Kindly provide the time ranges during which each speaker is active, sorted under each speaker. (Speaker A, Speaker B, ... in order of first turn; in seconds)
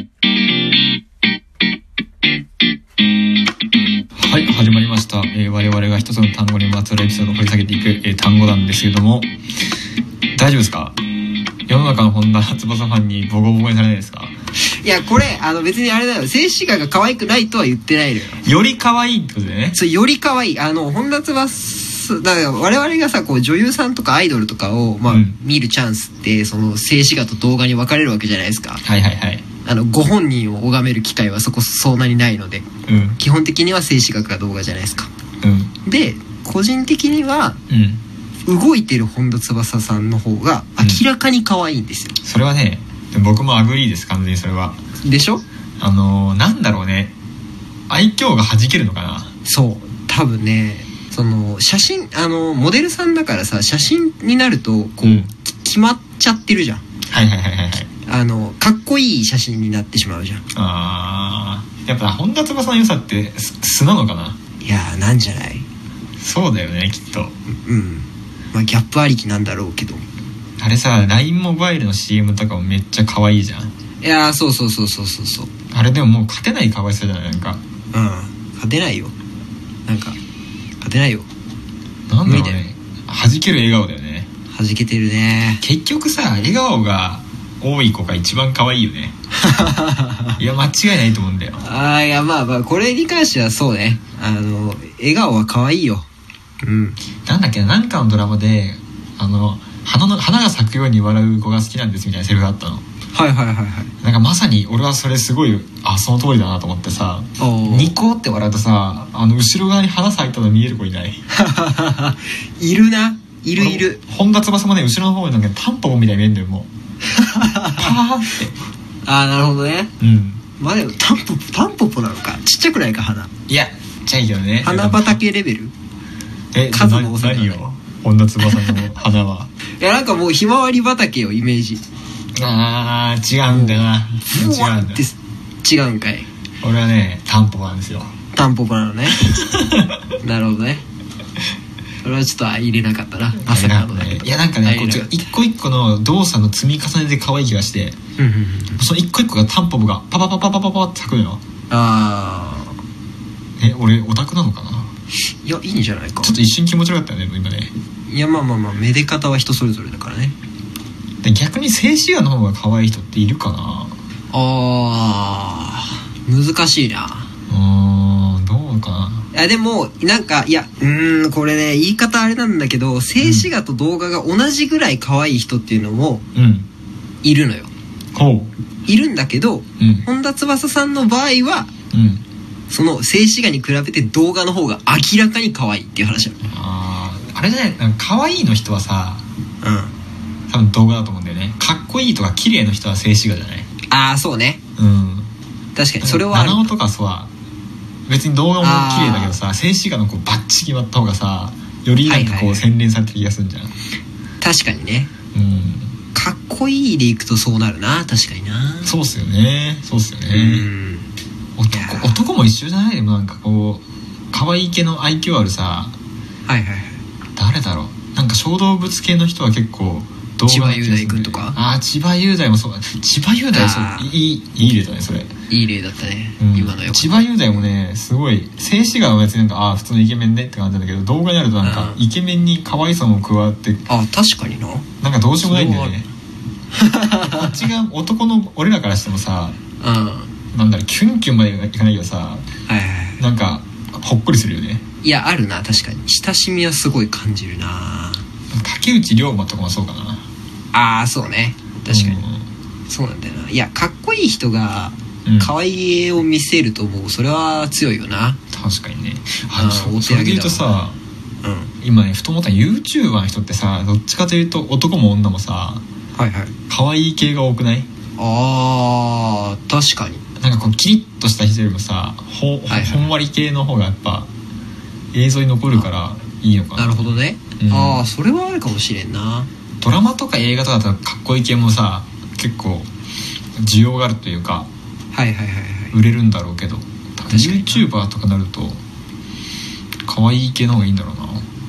Speaker A: 4.2-9.3, 10.3-11.0, 11.7-14.3, 18.4-19.8, 25.1-25.4, 28.8-29.4, 32.9-33.2, 35.4-35.7, 37.7-38.0, 42.2-44.8, 45.8-47.1, 47.9-49.3, 55.0-55.3, 57.1-57.9, 60.5-64.4, 66.2-67.3, 70.6-73.7, 75.7-77.6, 82.1-84.3, 85.6-89.1, 90.4-91.6, 97.2-102.8, 104.0-111.2, 113.6-116.7, 117.8-118.5, 120.0-120.4, 123.5-125.2, 126.5-129.5, 132.3-135.0, 136.6-138.1, 139.1-140.0, 143.4-148.0, 148.8-151.4, 153.6-154.9, 156.2-157.7, 161.2-163.9, 167.5-169.3, 173.2-173.5, 176.3-176.7, 178.1-178.5, 179.8-180.1, 181.9-182.2, 186.4-189.2, 190.5-193.7, 194.8-195.3, 196.0-197.3, 198.1-203.7, 205.3-205.9, 208.8-210.7, 211.6-215.9, 217.3-225.3, 226.4-233.8, 235.0-236.1, 237.2-239.6, 240.5-242.4, 243.2-244.8, 248.5-250.2, 251.9-252.4, 255.2-255.5, 258.5-261.0, 261.8-265.8, 266.7-267.9, 270.4-274.3, 275.1-278.0, 279.8-282.9, 283.6-284.7, 285.9-288.8, 290.1-291.5
Speaker B: 14.7-18.4, 19.7-28.8, 29.6-32.6, 33.2-35.1, 35.8-37.6, 38.5-42.1, 45.0-45.4, 49.4-56.8, 58.0-60.4, 64.6-65.7, 67.5-70.0, 74.0-75.5, 77.9-79.1, 79.9-80.2, 80.8-81.3, 82.2-82.6, 84.5-85.6, 89.4-90.4, 91.6-96.1, 96.6-97.0, 103.1-103.9, 107.4-108.0, 111.3-114.0, 117.1-117.9, 119.0-119.9, 120.6-123.3, 124.6-125.7, 126.7-127.6, 128.4-128.8, 129.8-131.8, 133.5-136.3, 138.3-139.2, 140.2-140.8, 142.0-145.3, 148.2-148.8, 151.7-152.7, 155.4-156.4, 158.1-160.3, 164.3-167.3, 169.3-176.2, 177.2-177.7, 178.9-181.7, 182.7-186.4, 189.6-189.9, 193.9-194.6, 195.8-196.7, 198.6-199.4, 202.1-202.7, 204.4-205.1, 206.1-208.9, 210.3-211.1, 211.7-212.2, 216.5-217.0, 220.5-221.6, 223.5-224.1, 225.5-227.3, 231.6-232.0, 233.9-234.9, 235.4-236.0, 236.7-237.5, 239.8-240.3, 242.7-243.2, 245.0-248.2, 250.7-252.2, 252.9-258.4, 259.5-260.8, 261.4-261.7, 266.2-266.5, 268.2-270.2, 272.7-273.1, 276.8-279.5, 285.1-285.9, 287.3-287.9